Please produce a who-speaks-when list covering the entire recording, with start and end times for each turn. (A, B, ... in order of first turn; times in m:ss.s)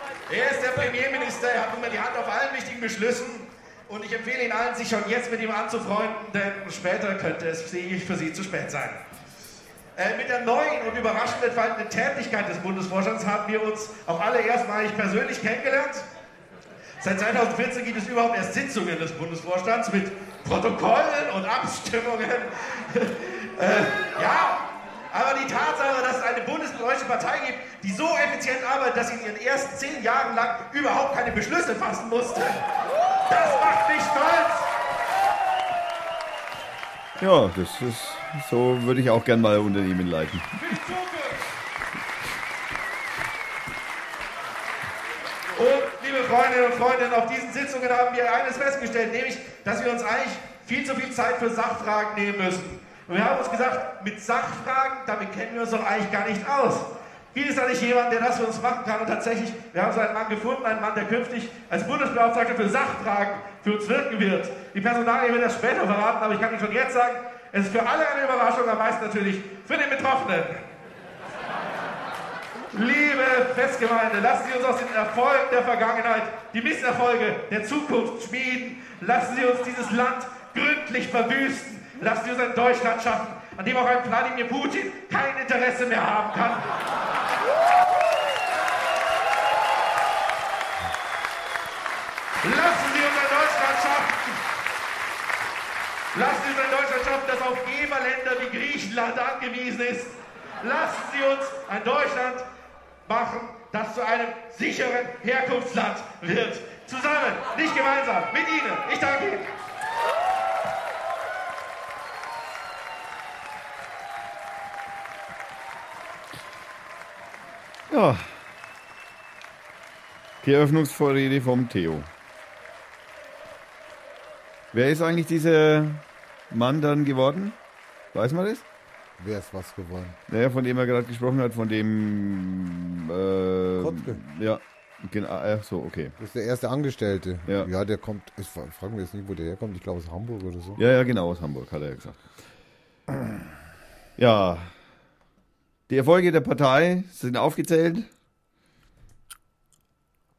0:00.3-0:09.0 A
0:10.0-0:16.0 A
0:17.0-0:32.6 A
0:33.3-0:34.7 A
0:37.2-0:40.5 B
0:40.6-0:41.4 A
0:45.5-1:10.6 A
1:12.7-1:26.7 A
1:32.4-1:34.3 A
1:36.1-1:42.4 A
1:43.0-1:49.5 A
1:57.9-1:58.3 B
2:00.4-2:02.1 B
2:04.7-2:07.6 B
2:08.1-2:08.6 B
2:09.2-2:10.2 C
2:10.3-2:16.1 B
2:13.8-2:14.2 C
2:16.2-2:20.8 C
2:20.8-2:22.2 B
2:24.2-2:24.7 B
2:25.9-2:28.1 B